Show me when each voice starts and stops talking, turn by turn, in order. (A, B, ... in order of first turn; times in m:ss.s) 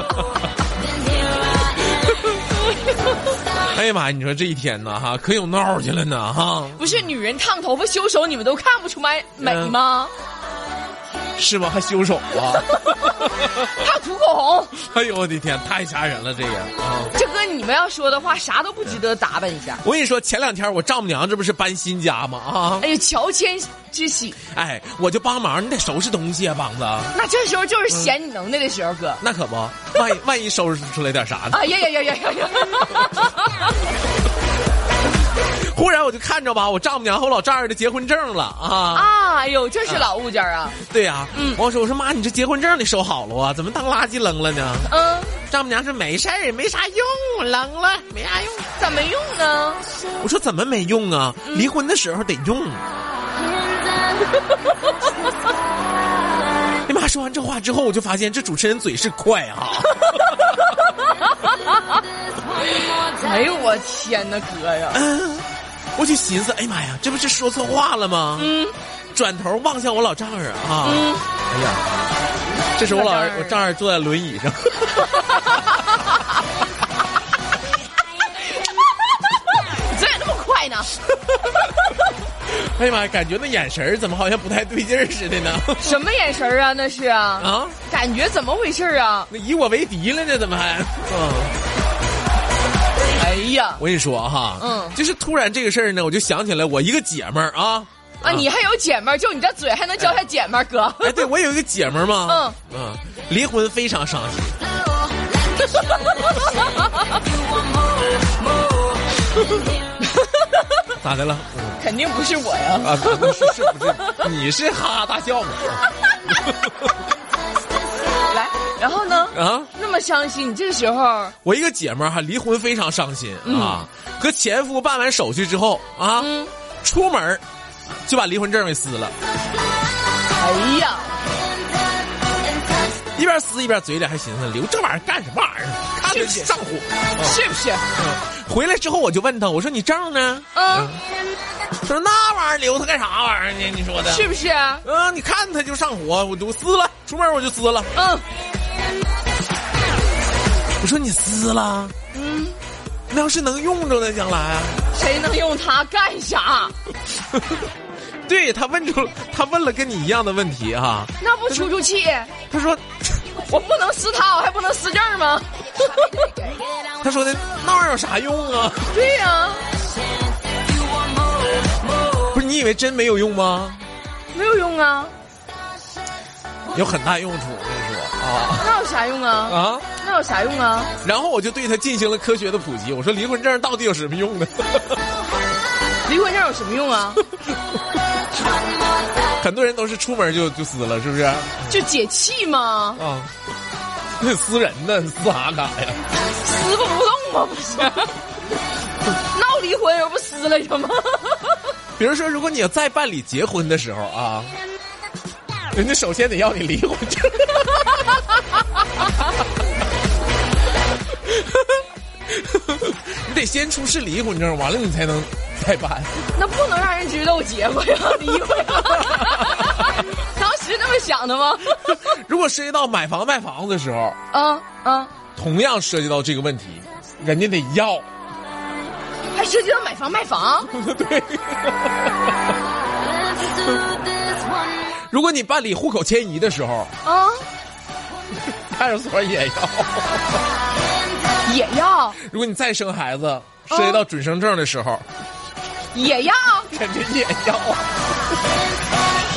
0:03.6-0:07.0 A
0:06.8-0:10.1 B
0:09.4-0:09.7 A
0:11.4-0:13.7 A
0:12.5-0:14.8 B
0:14.8-0:17.1 A
0:17.1-0:19.8 B
0:19.8-0:22.9 A
0:22.8-0:24.4 B
0:24.5-0:27.1 A
0:27.1-0:29.2 B
0:29.2-0:31.6 A
0:31.5-0:33.7 B
0:35.6-0:39.1 A
0:38.9-0:40.8 B
0:40.8-0:44.9 A
0:41.3-0:41.6 B
0:44.8-0:45.4 B
0:45.5-0:48.7 A
0:48.8-0:49.8 B
0:50.2-0:52.8 A
0:56.8-1:00.9 A
1:00.0-1:01.9 B
1:02.7-1:05.0 B
1:04.9-1:08.6 A
1:08.4-1:08.7 B
1:09.1-1:11.8 A
1:10.8-1:11.2 B
1:12.8-1:15.6 A
1:12.9-1:13.6 B
1:15.3-1:15.8 B
1:19.1-1:21.0 B
1:22.4-1:26.0 A
1:25.8-1:29.3 B
1:27.4-1:27.8 A
1:29.3-1:31.6 A
1:33.1-1:33.8 B
1:33.8-1:38.5 A
1:34.6-1:35.0 B
1:38.2-1:41.3 B
1:41.0-1:44.6 A
1:42.2-1:42.6 B
1:45.8-1:46.9 B
1:50.0-1:50.4 B
1:51.0-1:51.8 A
1:51.8-1:54.2 B
1:52.8-1:55.9 A
1:58.3-2:01.3 B
1:59.3-1:59.7 A
2:01.4-2:06.3 A
2:03.4-2:03.8 B
2:06.2-2:06.5 B
2:06.8-2:07.4 A
2:08.1-2:09.1 A
2:10.4-2:11.2 B
2:13.2-2:17.4 A
2:16.0-2:16.5 B
2:17.2-2:17.8 B
2:17.9-2:21.0 A
2:20.5-2:20.9 B
2:21.8-2:24.3 A
2:24.0-2:24.8 B
2:24.8-2:27.9 A
2:27.9-2:28.2 B
2:30.8-2:31.9 A
2:32.1-2:32.6 B
2:33.1-2:34.8 A
2:34.9-2:36.7 B
2:38.3-2:41.7 A
2:41.2-2:42.3 B
2:42.5-2:43.2 A
2:43.3-2:46.5 B
2:47.0-2:48.9 A
2:48.9-2:49.6 B
2:52.3-2:53.8 A
2:54.3-2:55.1 B
2:56.7-2:58.7 A
2:58.6-3:00.9 B
2:59.5-2:59.9 A
3:01.0-3:05.0 A
3:06.0-3:07.2 B
3:09.4-3:11.8 A
3:11.7-3:13.0 B
3:13.0-3:13.3 A
3:14.2-3:16.0 A
3:16.4-3:18.1 B
3:19.2-3:21.6 B
3:22.0-3:24.5 A
3:25.7-3:27.8 A
3:32.3-3:36.2 A
3:36.3-3:42.0 B
3:39.0-3:39.5 A
3:41.8-3:44.2 A
3:44.3-3:45.1 B
3:45.4-3:48.0 A
3:49.3-3:50.7 B
3:50.7-3:52.1 A
3:55.1-3:56.9 A
3:57.0-3:57.4 B
3:58.5-4:00.4 A
4:01.4-4:02.2 B
4:02.2-4:05.0 A
4:03.7-4:04.0 B
4:05.9-4:06.7 B
4:06.7-4:07.9 A